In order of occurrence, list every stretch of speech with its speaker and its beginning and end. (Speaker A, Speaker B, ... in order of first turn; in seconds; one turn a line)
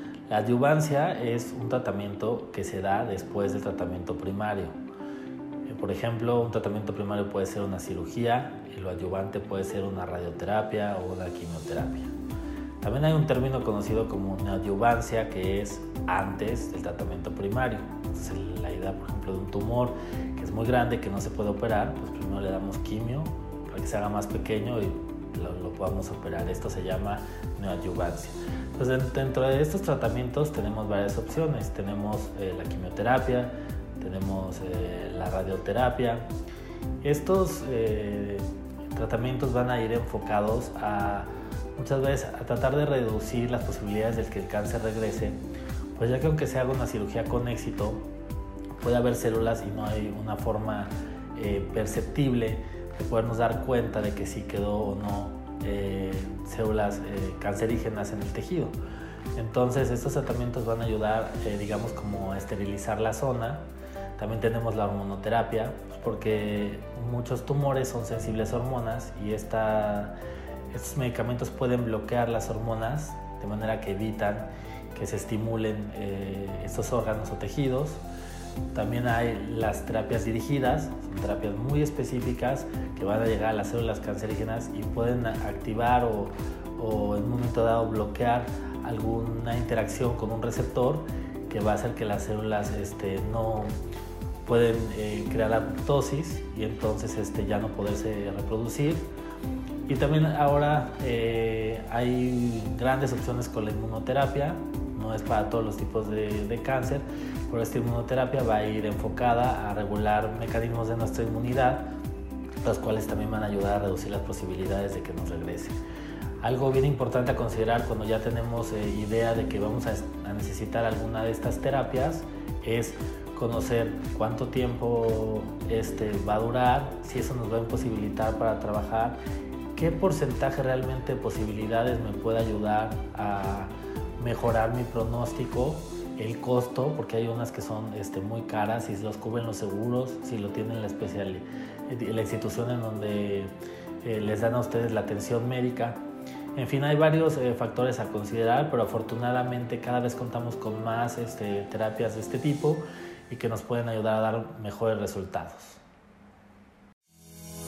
Speaker A: 0.3-4.8
Speaker A: 5.7-12.1
Speaker A: 12.8-36.3
Speaker A: 37.0-45.4
Speaker A: 45.9-48.0
Speaker A: 48.8-58.7
Speaker A: 59.4-70.2
Speaker A: 70.7-78.0
Speaker A: 78.7-93.7
Speaker A: 94.4-99.0
Speaker A: 99.8-111.9
Speaker A: 112.6-115.8
Speaker A: 116.4-129.2
Speaker A: 129.7-146.0
Speaker A: 146.5-155.8